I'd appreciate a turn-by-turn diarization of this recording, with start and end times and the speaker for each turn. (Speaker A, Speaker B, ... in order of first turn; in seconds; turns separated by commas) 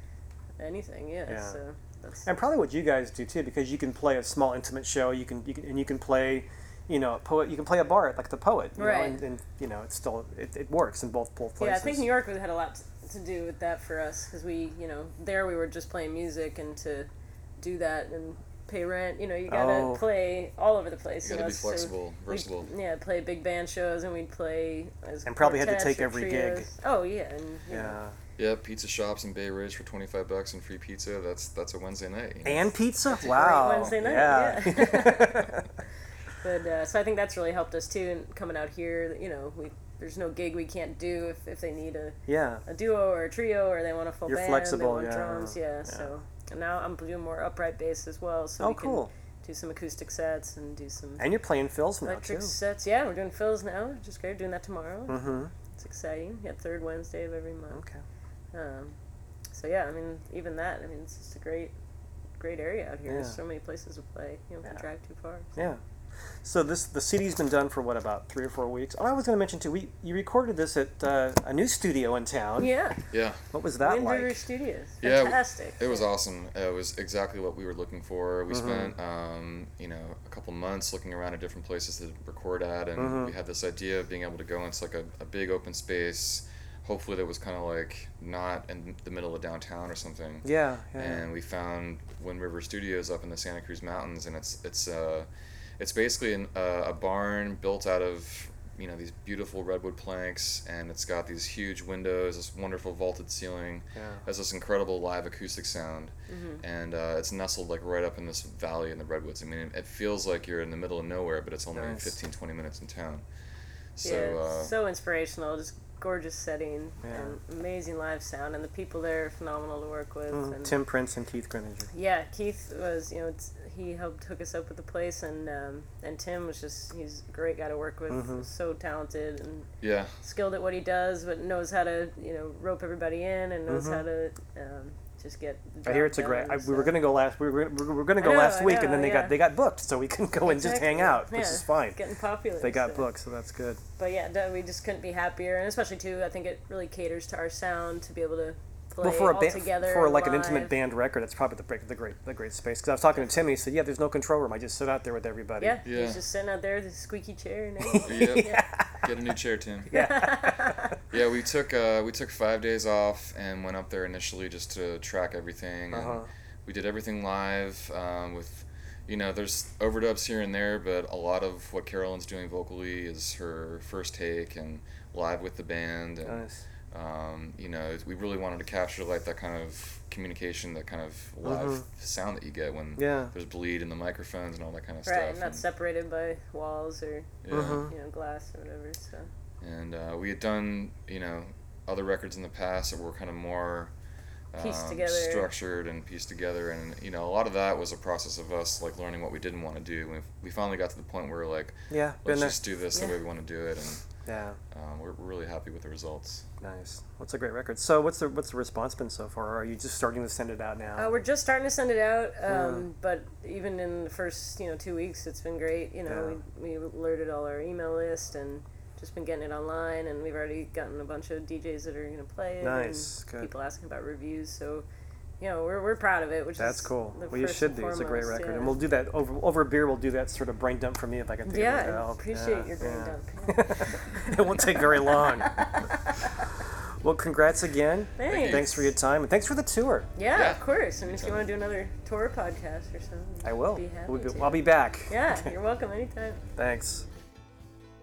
Speaker A: 0.6-2.3, Speaker B: 1.3-1.6, Speaker B: 2.2-12.1, Speaker A: 8.8-9.2, Speaker A: 11.6-28.0, Speaker B: 19.5-20.1, Speaker C: 21.2-22.7, Speaker B: 25.2-26.7, Speaker B: 27.7-28.2, Speaker C: 28.4-32.7, Speaker B: 32.5-35.8, Speaker A: 33.1-35.6, Speaker C: 33.5-34.0, Speaker A: 36.4-51.3, Speaker B: 42.3-42.6, Speaker B: 44.3-46.1, Speaker B: 48.6-49.1, Speaker B: 51.2-52.6, Speaker A: 52.0-57.8, Speaker B: 55.1-55.5, Speaker B: 57.7-58.0, Speaker A: 58.5-59.0, Speaker A: 59.5-61.7, Speaker A: 62.4-65.7, Speaker B: 63.1-63.4, Speaker B: 65.6-72.7, Speaker A: 72.6-73.0, Speaker C: 73.1-73.4, Speaker B: 73.5-74.4, Speaker A: 73.8-76.0, Speaker C: 75.0-95.3, Speaker B: 78.5-78.9, Speaker B: 83.0-83.3, Speaker B: 90.4-91.2, Speaker C: 95.8-113.2, Speaker B: 104.0-104.2, Speaker A: 106.3-106.6, Speaker B: 111.7-112.1, Speaker C: 114.0-114.7, Speaker A: 114.0-120.8, Speaker B: 117.0-117.4, Speaker B: 120.3-121.9, Speaker A: 121.9-129.7, Speaker B: 128.1-128.5, Speaker C: 129.8-130.2, Speaker A: 130.2-137.0, Speaker B: 133.7-134.1, Speaker B: 135.8-142.0, Speaker A: 138.2-139.3, Speaker A: 140.4-143.1, Speaker B: 142.6-143.8, Speaker A: 144.0-150.8, Speaker B: 149.0-155.8, Speaker A: 153.1-153.4, Speaker A: 155.6-158.7, Speaker C: 155.8-156.2, Speaker B: 157.8-159.0, Speaker C: 158.0-159.9, Speaker B: 159.9-160.9, Speaker A: 159.9-160.9, Speaker C: 161.1-185.6, Speaker B: 165.9-166.3, Speaker B: 176.2-176.6, Speaker B: 181.4-181.8, Speaker B: 183.0-183.3, Speaker A: 185.1-189.3, Speaker C: 187.4-187.9, Speaker B: 187.5-187.9, Speaker C: 189.6-193.9, Speaker C: 194.5-204.1, Speaker A: 194.6-195.5, Speaker B: 201.9-202.6, Speaker B: 204.2-204.6, Speaker C: 204.7-206.5, Speaker B: 206.6-211.1, Speaker A: 211.0-224.9, Speaker B: 212.5-212.9, Speaker B: 216.1-216.4, Speaker B: 222.6-223.5, Speaker A: 225.4-228.8, Speaker B: 226.6-240.1, Speaker A: 231.5-235.9, Speaker A: 238.2-238.9, Speaker C: 238.2-238.8, Speaker A: 240.2-246.4, Speaker C: 240.3-241.5, Speaker B: 243.4-245.5, Speaker B: 246.6-247.1